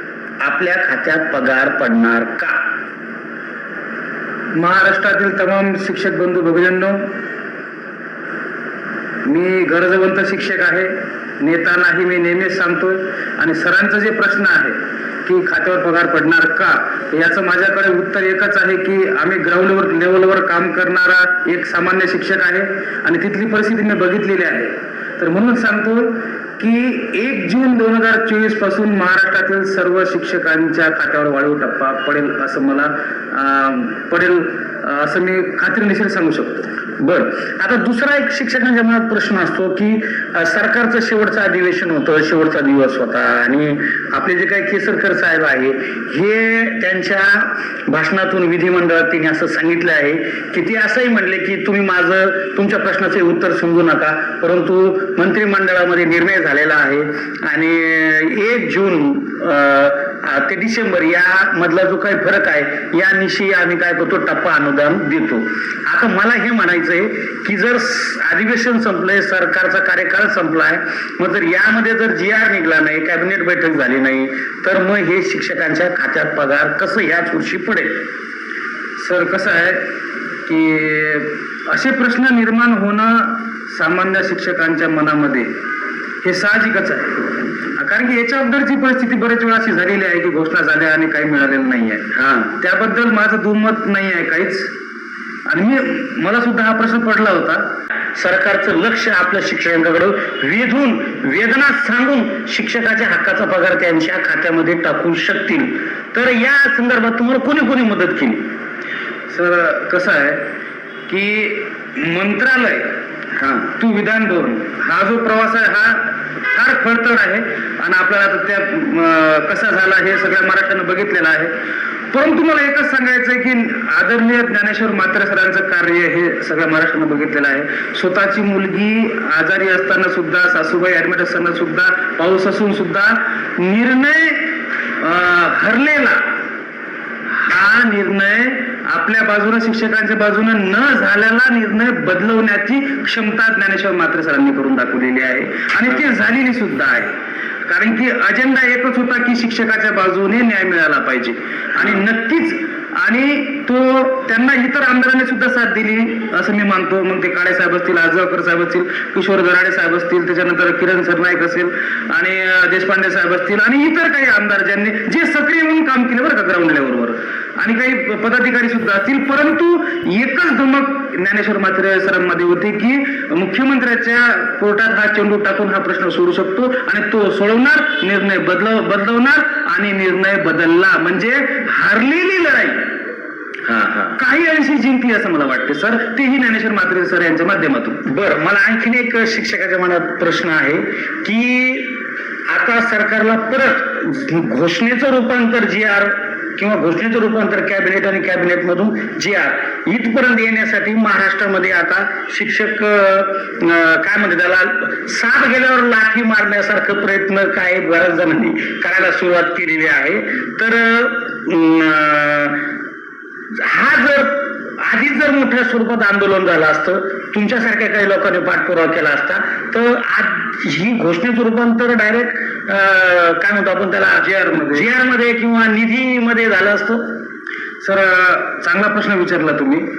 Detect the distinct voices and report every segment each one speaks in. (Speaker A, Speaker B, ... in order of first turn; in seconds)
Speaker A: 0.4-2.6, 37.0-78.0, 92.1-92.5, 98.2-108.5, 113.3-113.7, 183.6-184.2, 188.0-212.7, 213.5-227.1
Speaker B: 4.5-7.1, 9.2-36.7, 79.0-79.9, 80.5-85.5, 86.2-92.1, 92.6-94.7, 95.5-97.7, 109.3-110.4, 111.1-113.0, 113.7-121.5, 122.1-136.2, 137.3-182.9, 184.2-188.0, 224.2-224.9, 227.8-229.8